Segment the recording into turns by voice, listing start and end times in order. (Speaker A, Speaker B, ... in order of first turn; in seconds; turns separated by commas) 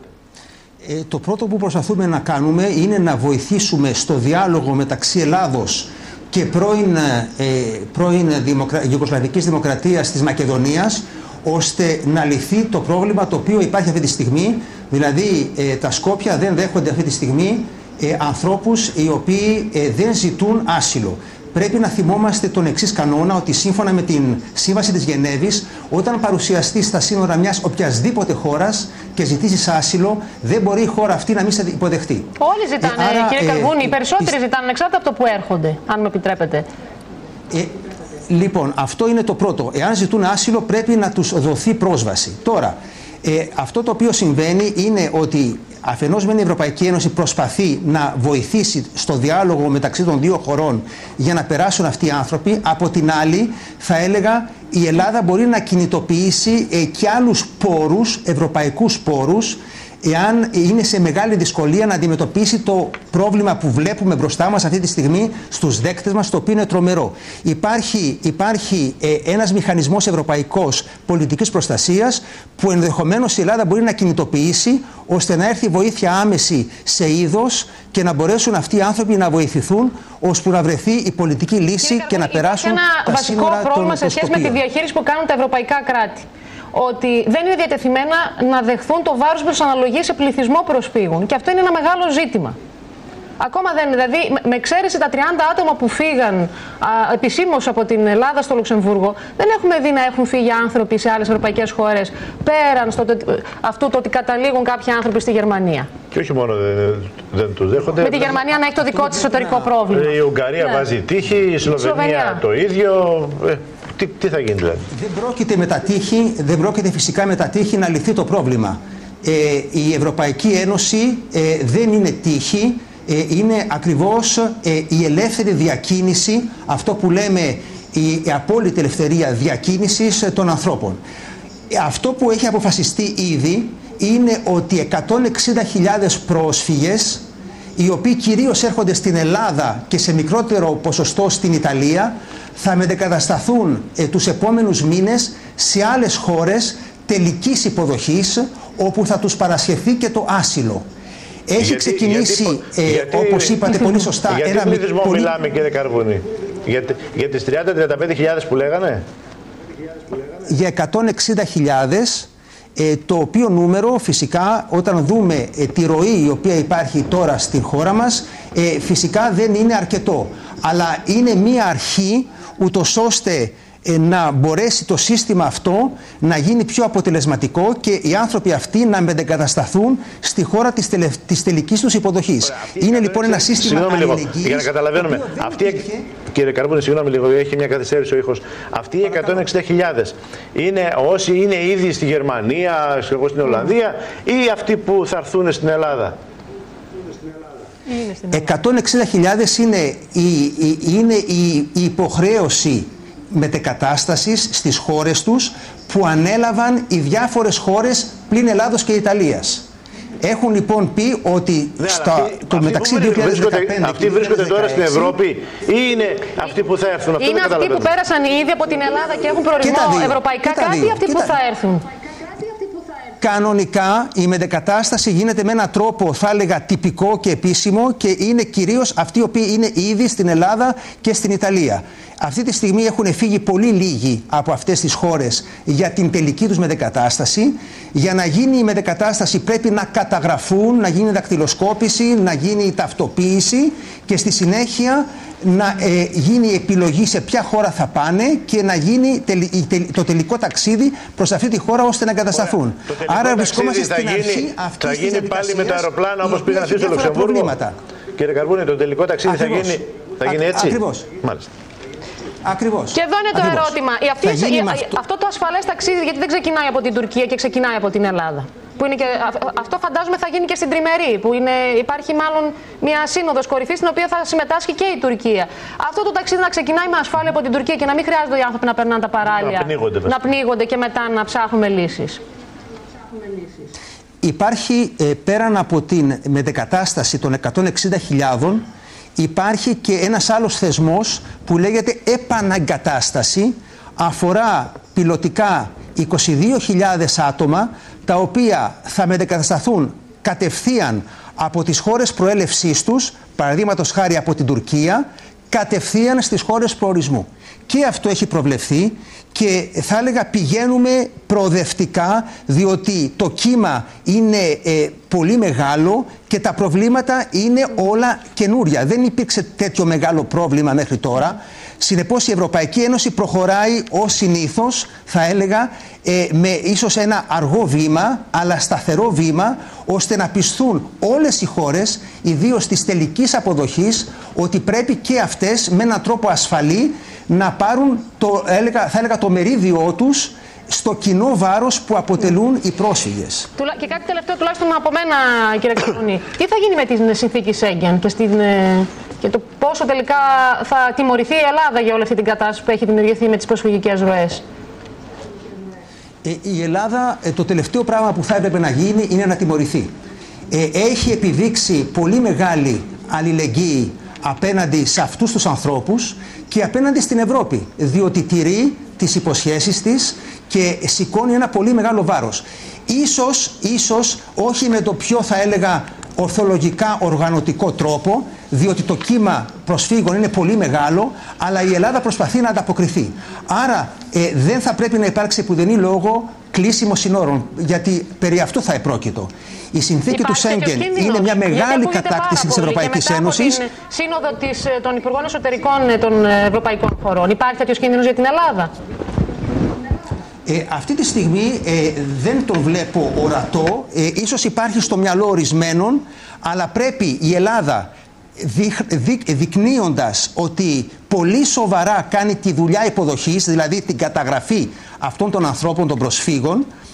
Speaker A: 0.8-34.3, Speaker B: 32.4-36.6, Speaker A: 37.5-84.6, Speaker B: 81.8-92.5, Speaker B: 93.4-105.9, Speaker C: 106.1-108.4, Speaker B: 108.0-110.8, Speaker A: 108.6-109.8, Speaker C: 109.9-114.9, Speaker B: 111.7-112.4, Speaker A: 114.9-131.0, Speaker A: 131.7-150.8, Speaker A: 151.5-155.3, Speaker C: 151.6-159.0, Speaker A: 160.4-186.1, Speaker C: 182.4-196.2, Speaker A: 189.1-189.5, Speaker B: 197.8-198.5, Speaker A: 198.3-209.7, Speaker A: 210.2-215.2, Speaker C: 211.8-217.9, Speaker B: 217.2-221.9, Speaker A: 219.6-221.3, Speaker A: 223.2-257.7, Speaker C: 252.3-257.6, Speaker C: 258.1-261.5, Speaker A: 259.2-261.1, Speaker A: 262.4-265.0, Speaker B: 262.9-282.2, Speaker C: 279.2-280.1, Speaker A: 284.2-288.6, Speaker A: 289.1-343.5, Speaker B: 343.6-354.4, Speaker A: 356.2-359.9, Speaker A: 360.5-393.6, Speaker B: 390.1-398.7, Speaker A: 400.4-416.7